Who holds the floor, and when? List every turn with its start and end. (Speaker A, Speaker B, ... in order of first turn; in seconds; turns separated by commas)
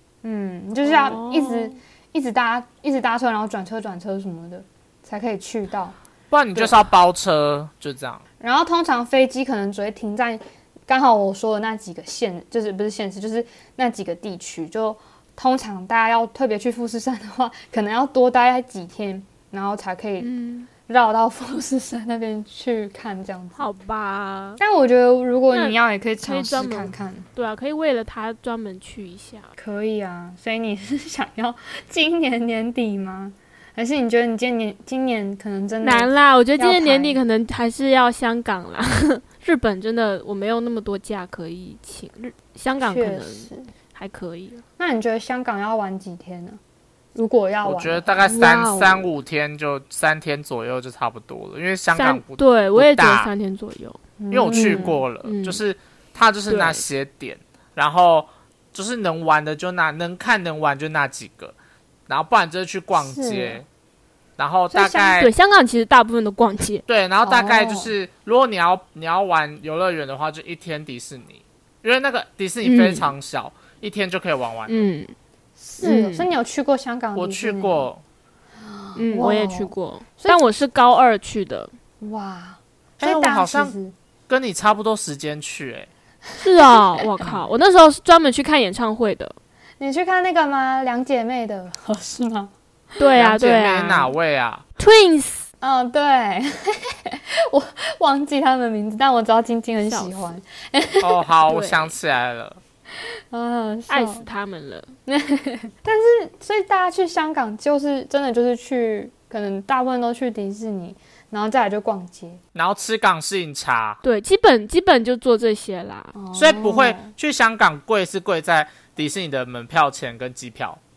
Speaker A: 0.2-6.0, Speaker B: 0.8-1.8, Speaker C: 6.3-8.2, Speaker A: 8.4-20.3, Speaker B: 20.2-20.7, Speaker A: 20.9-23.7, Speaker B: 23.6-24.6, Speaker A: 24.6-27.3, Speaker B: 25.5-29.5, Speaker A: 29.6-37.2, Speaker B: 35.8-44.6, Speaker A: 42.8-43.7, Speaker A: 44.8-46.6, Speaker A: 47.1-48.3, Speaker C: 47.6-53.3, Speaker B: 48.2-49.1, Speaker B: 52.0-54.0, Speaker A: 54.2-55.0, Speaker C: 54.3-61.6, Speaker B: 54.5-55.6, Speaker B: 56.5-56.8, Speaker C: 62.1-63.6, Speaker A: 63.0-63.6, Speaker C: 64.4-65.3, Speaker B: 64.7-66.8, Speaker C: 66.9-74.9, Speaker A: 67.2-67.9, Speaker B: 72.6-73.1, Speaker B: 74.7-75.1, Speaker A: 75.6-77.9, Speaker B: 75.8-76.3, Speaker C: 77.2-78.0, Speaker A: 78.6-80.4, Speaker B: 79.0-81.7, Speaker A: 82.0-83.9, Speaker C: 83.0-83.8, Speaker C: 84.3-85.9, Speaker B: 86.4-89.4, Speaker A: 86.6-87.0, Speaker A: 89.8-92.5, Speaker B: 93.0-94.1, Speaker C: 93.1-94.6, Speaker B: 94.8-95.5, Speaker A: 95.6-101.2, Speaker B: 99.8-100.3, Speaker C: 101.0-102.6, Speaker B: 101.5-101.9, Speaker A: 103.0-104.2, Speaker B: 103.9-104.9, Speaker A: 105.1-112.4, Speaker C: 112.5-114.0, Speaker B: 114.0-116.1, Speaker A: 116.2-117.2, Speaker C: 116.3-120.8